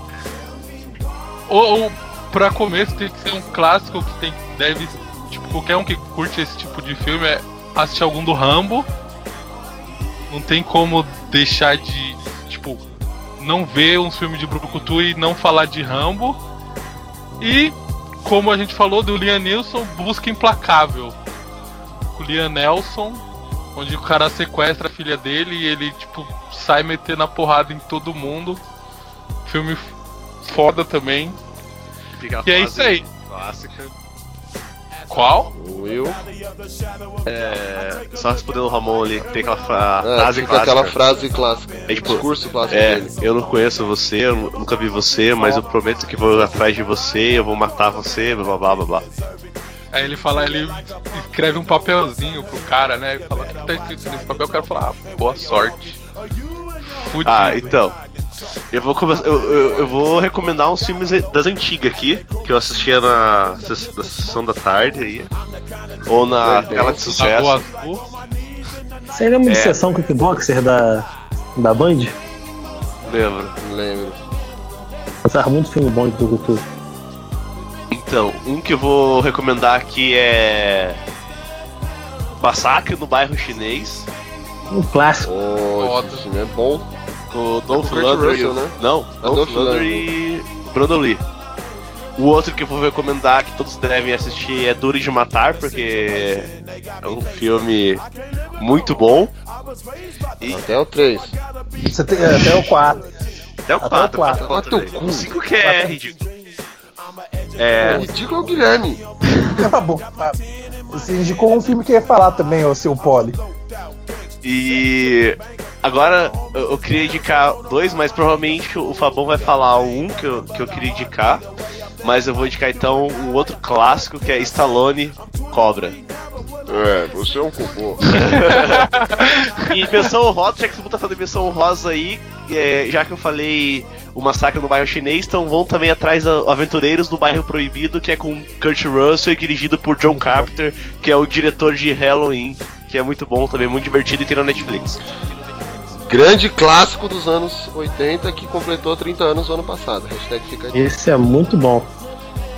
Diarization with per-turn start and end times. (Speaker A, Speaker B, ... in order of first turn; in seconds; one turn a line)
Speaker A: 1.5-8.9
Speaker A: 10.3-12.8
Speaker A: 13.4-16.4
Speaker A: 17.4-21.1
Speaker A: 22.1-23.2
Speaker A: 23.7-28.6
Speaker A: 29.4-31.4
Speaker B: 32.2-33.9
Speaker A: 32.4-33.0
Speaker A: 35.1-35.5
Speaker C: 35.5-36.2
Speaker B: 37.3-41.0
Speaker C: 40.0-43.1
Speaker B: 41.9-49.1
Speaker A: 49.9-56.0
Speaker A: 56.8-57.8
Speaker B: 57.2-58.0
Speaker B: 58.7-65.3
Speaker B: 66.1-67.6
Speaker C: 66.4-67.1
Speaker A: 67.1-68.0
Speaker D: 69.1-72.2
Speaker B: 69.5-69.8
Speaker B: 73.1-73.5
Speaker C: 73.6-74.2
Speaker D: 75.2-76.6
Speaker B: 77.9-81.0
Speaker B: 82.4-84.1
Speaker D: 84.7-85.3
Speaker C: 85.2-86.9
Speaker A: 85.8-86.2
Speaker B: 87.3-91.2
Speaker C: 87.7-90.1
Speaker B: 92.2-96.5
Speaker B: 97.0-98.0
Speaker B: 98.6-99.3
Speaker C: 100.5-101.3
Speaker E: 101.9-103.0
Speaker B: 102.3-102.6
Speaker B: 103.7-106.2
Speaker E: 103.8-104.4
Speaker C: 104.3-105.3
Speaker E: 105.6-106.0
Speaker B: 107.6-108.1
Speaker C: 107.8-109.0
Speaker E: 109.6-110.4
Speaker E: 110.9-113.4
Speaker B: 114.4-121.4
Speaker B: 122.0-126.0
Speaker C: 126.7-128.2
Speaker B: 128.2-128.9
Speaker A: 128.2-130.1
Speaker B: 129.7-145.0
Speaker E: 140.1-140.5
Speaker C: 146.1-150.9
Speaker D: 150.7-151.9